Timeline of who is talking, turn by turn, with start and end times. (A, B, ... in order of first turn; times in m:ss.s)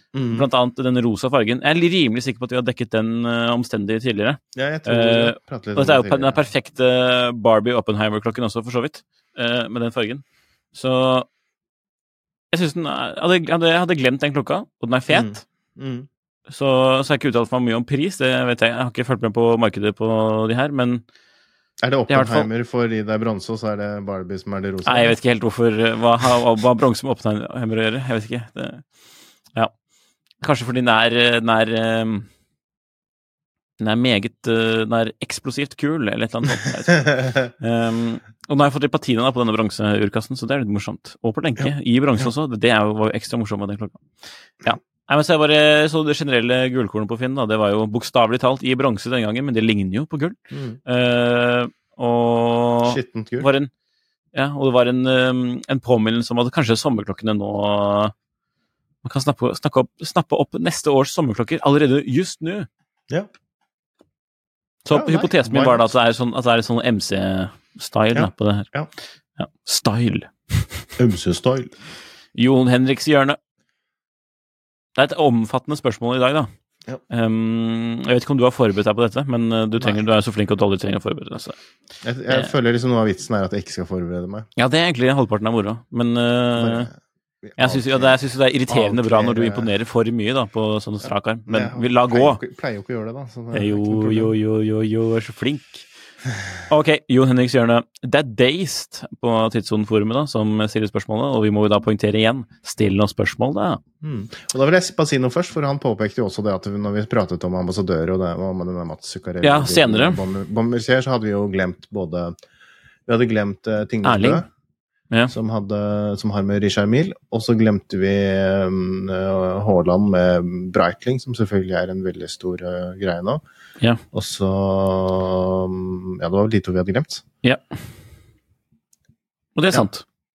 0:00.1-0:00.5 A
0:00.3-0:11.3 B
0:04.5-0:06.4 A
0:12.5-0:15.4 B
0:15.1-0:16.1 A
0:16.5-0:21.0 B
0:21.8-0:25.2 A
0:22.1-0:22.5 B
0:24.8-0:28.8 B
0:30.4-0:32.3 B
0:33.8-0:53.7 B
0:50.5-0:50.8 A
0:52.8-0:53.5 A
0:54.3-0:58.1 B
0:59.0-1:02.7 B
1:04.8-1:08.7 B
1:04.9-1:05.9 A
1:08.1-1:08.9 A
1:09.4-1:10.9 B
1:11.0-1:11.7 A
1:12.3-1:13.4 B
1:15.0-1:16.5 B
1:17.1-1:21.6 B
1:19.8-1:20.1 A
1:22.0-1:24.5 A
1:24.6-1:26.9 B
1:26.6-1:26.9 A
1:27.4-1:28.2 A
1:27.6-1:32.4 B
1:28.7-1:29.7 A
1:31.0-1:34.3 A
1:33.5-1:35.9 B
1:36.7-1:43.8 B
1:44.0-1:52.3 A
1:49.4-1:50.2 B
1:53.0-1:54.5 A
1:54.0-1:54.4 B
1:55.3-2:03.4 A
2:04.1-2:07.2 A
2:07.4-2:07.8 B
2:09.6-2:10.0 B